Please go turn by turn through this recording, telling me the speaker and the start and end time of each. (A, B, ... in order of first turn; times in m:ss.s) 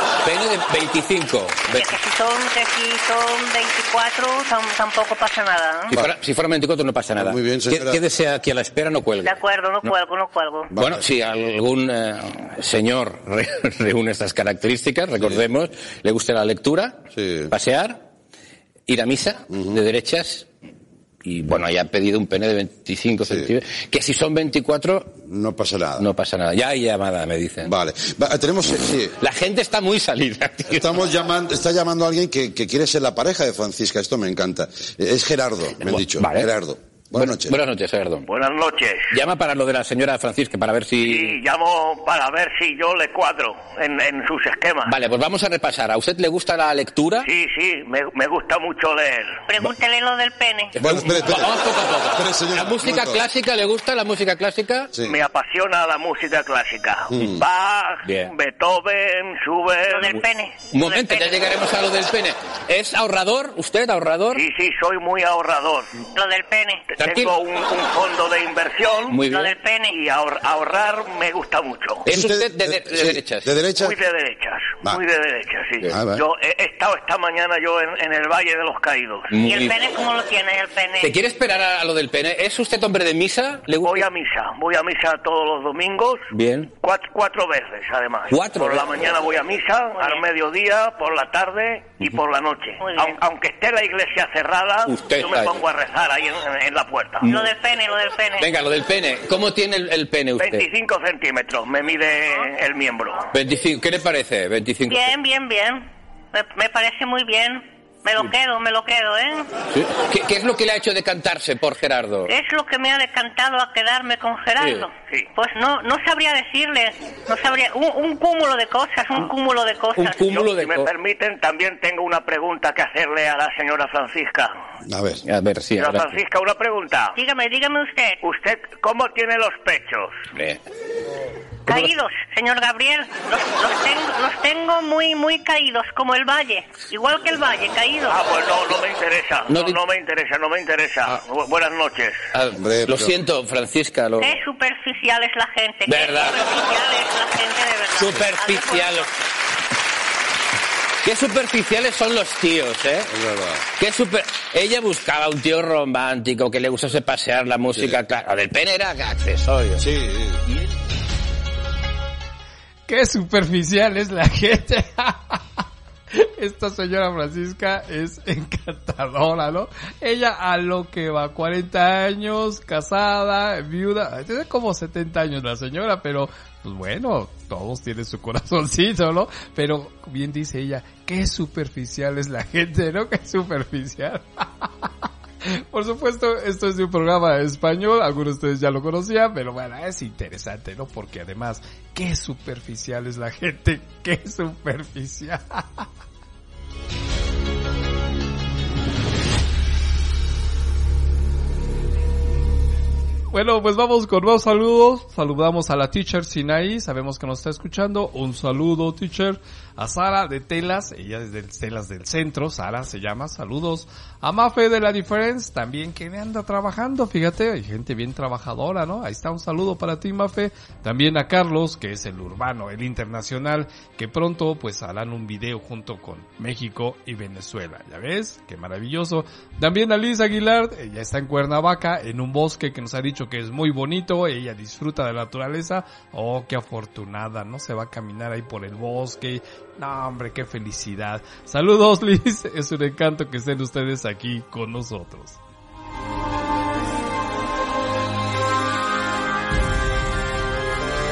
0:00.2-0:01.9 A
0:01.7-0:05.9 B
0:05.9-0:09.9 A
0:07.2-0:08.0 C
0:09.2-0:10.7 B
0:10.7-0:11.0 C
0:10.8-0:18.0 A
0:17.1-0:17.5 C
0:18.9-0:20.5 A
0:19.5-0:19.8 C
0:21.2-0:25.1 A
0:25.2-0:26.0 C
0:26.0-0:27.7 A
0:27.6-0:29.1 C
0:29.2-0:31.1 A
0:30.7-0:37.5 C
0:35.8-0:36.5 A
0:37.2-0:38.3 A
0:38.3-0:39.1 D
0:39.1-0:41.4 A
0:41.0-0:44.9 D
0:44.9-0:47.3 A
0:47.2-0:49.4 D
0:49.5-0:50.8 B
0:50.7-0:54.9 A
0:50.8-0:53.2 C
0:55.0-1:00.2 D
0:57.1-0:57.4 C
0:58.0-0:58.3 A
0:59.9-1:01.4 B
1:00.7-1:04.4 A
1:04.3-1:05.9 D
1:06.1-1:06.9 B
1:07.0-1:07.3 A
1:07.0-1:09.2 D
1:09.1-1:09.5 A
1:09.3-1:10.0 B
1:09.9-1:12.0 D
1:12.0-1:13.5 A
1:12.1-1:14.0 C
1:13.7-1:19.3 D
1:15.9-1:16.2 C
1:19.3-1:19.8 A
1:19.4-1:21.1 B
1:21.0-1:24.1 A
1:23.8-1:26.3 D
1:26.3-1:26.7 A
1:26.8-1:37.3 D
1:28.3-1:28.9 A
1:32.8-1:33.2 B
1:34.9-1:35.6 A
1:37.2-1:37.5 A
1:37.2-1:38.5 B
1:38.4-1:40.6 A
1:40.4-1:43.3 D
1:43.3-1:45.1 A
1:44.9-1:49.5 B
1:49.7-1:52.3 A
1:52.3-2:00.2 B
1:54.6-1:54.9 A
2:00.0-2:00.9 A
2:00.2-2:04.6 D
2:04.9-2:05.2 C
2:05.2-2:06.2 A
2:05.8-2:07.2 D
2:07.2-2:08.2 B
2:08.2-2:10.2 D
2:10.3-2:10.6 A
2:11.7-2:18.2 B
2:18.1-2:22.2 D
2:19.5-2:19.8 A
2:22.3-2:24.3 A
2:22.6-2:23.1 C
2:24.2-2:29.0 B
2:25.9-2:26.6 A
2:28.0-2:29.1 A
2:31.0-2:33.1 A
2:33.1-2:33.6 C
2:33.8-2:39.9 A
2:39.8-2:40.4 C
2:42.9-2:45.4 E
2:46.1-3:04.9 E
3:05.4-3:15.9 E
3:23.3-4:05.4 E